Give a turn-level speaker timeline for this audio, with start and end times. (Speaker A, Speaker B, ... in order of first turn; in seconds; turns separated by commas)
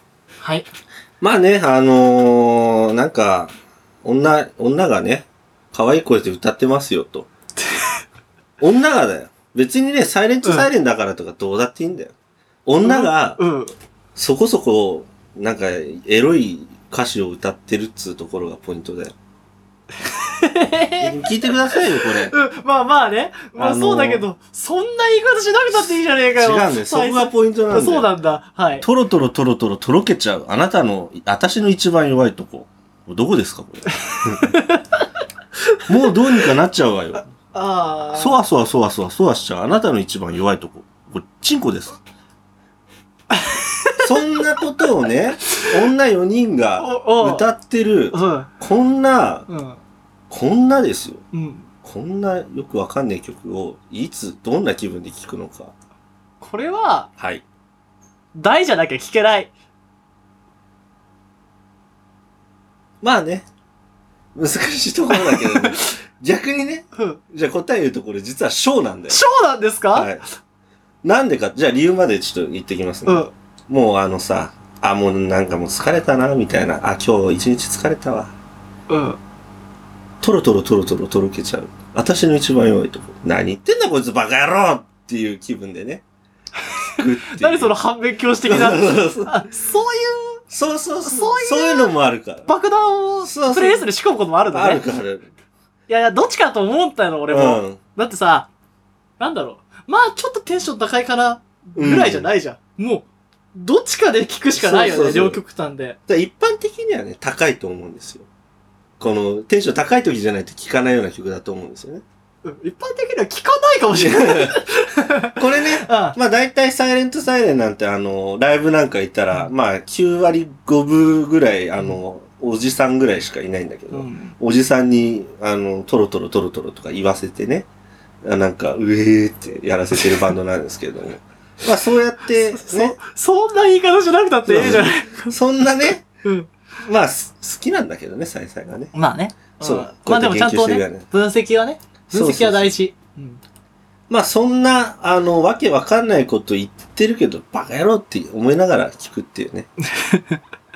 Speaker A: 0.4-0.7, Speaker B: 1.2-3.5, Speaker B: 4.0-7.3, Speaker B: 8.6-12.1, Speaker B: 12.7-13.4, Speaker A: 12.8-13.7, Speaker B: 14.2-19.1, Speaker A: 20.1-21.1, Speaker B: 21.0-22.4, Speaker A: 21.8-28.9, Speaker B: 23.6-24.2, Speaker B: 26.4-28.1, Speaker B: 28.8-34.5, Speaker A: 34.4-35.0, Speaker B: 35.9-37.3, Speaker A: 37.5-38.4, Speaker B: 38.1-42.0, Speaker A: 43.3-44.1, Speaker B: 44.0-49.5, Speaker A: 46.8-47.5, Speaker A: 48.1-48.5, Speaker A: 49.5-49.8, Speaker B: 50.3-51.2, Speaker A: 51.3-51.7, Speaker B: 51.8-55.7, Speaker A: 56.4-57.1, Speaker B: 57.2-57.5, Speaker A: 58.4-59.5, Speaker B: 63.0-63.5, Speaker B: 64.3-69.2, Speaker A: 65.1-65.8, Speaker A: 67.0-67.2, Speaker A: 69.1-70.1, Speaker B: 69.9-70.2, Speaker B: 71.0-78.3, Speaker A: 73.1-73.3, Speaker A: 78.9-79.2, Speaker B: 80.2-86.0, Speaker A: 87.0-90.4, Speaker B: 87.0-87.8, Speaker B: 88.5-89.3, Speaker B: 90.5-92.5, Speaker A: 91.0-91.9, Speaker A: 92.5-94.9, Speaker B: 93.2-93.8, Speaker B: 94.5-95.3, Speaker A: 95.9-98.5, Speaker B: 97.3-97.8, Speaker A: 99.2-106.0, Speaker B: 101.8-102.3, Speaker B: 104.5-105.4, Speaker B: 106.1-108.3, Speaker B: 109.0-112.0, Speaker A: 112.4-116.2, Speaker B: 114.0-114.6, Speaker B: 115.4-127.7, Speaker A: 123.9-124.4, Speaker B: 128.2-133.0, Speaker A: 132.4-135.4, Speaker B: 134.5-136.0, Speaker A: 136.2-136.6, Speaker B: 136.8-138.9, Speaker A: 138.9-143.4, Speaker B: 139.6-141.1, Speaker B: 142.1-142.7, Speaker B: 144.1-149.7, Speaker A: 149.9-150.4